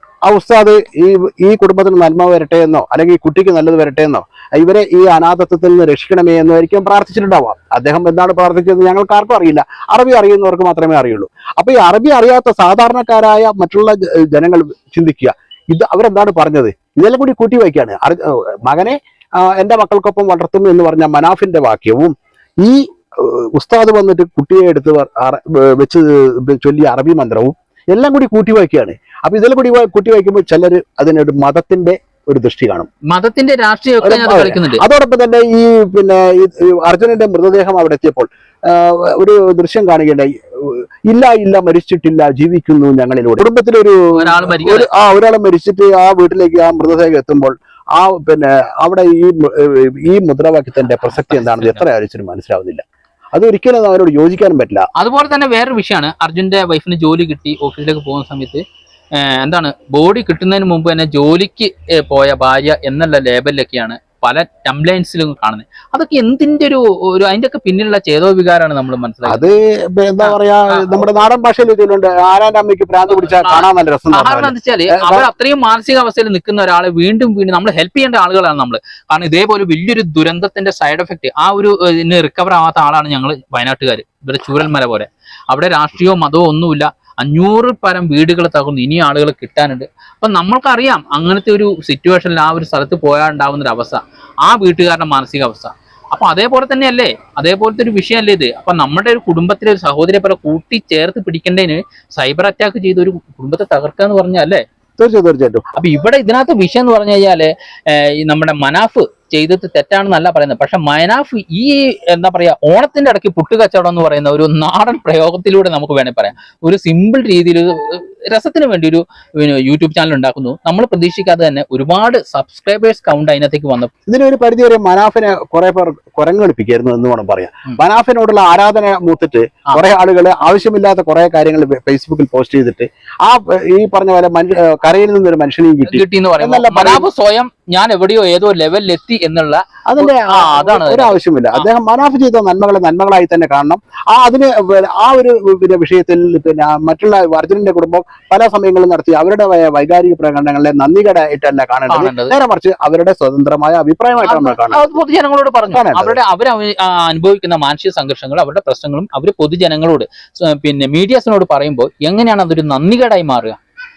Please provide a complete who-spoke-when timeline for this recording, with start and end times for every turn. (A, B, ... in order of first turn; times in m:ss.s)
0:00.2-0:32.9 A
0:33.1-0:34.8 B
0:34.0-0:52.8 A
0:44.1-0:44.9 B
0:50.8-0:51.8 B
0:53.3-0:54.8 A
0:55.0-0:58.6 B
0:59.1-1:09.5 B
1:09.2-1:15.3 A
1:10.2-1:11.1 B
1:13.1-1:44.6 B
1:45.0-1:45.6 A
1:45.7-2:03.9 B
2:04.1-2:17.0 A
2:15.8-2:21.7 B
2:19.9-2:34.9 A
2:31.9-2:32.3 B
2:34.2-2:43.6 B
2:35.7-2:36.2 A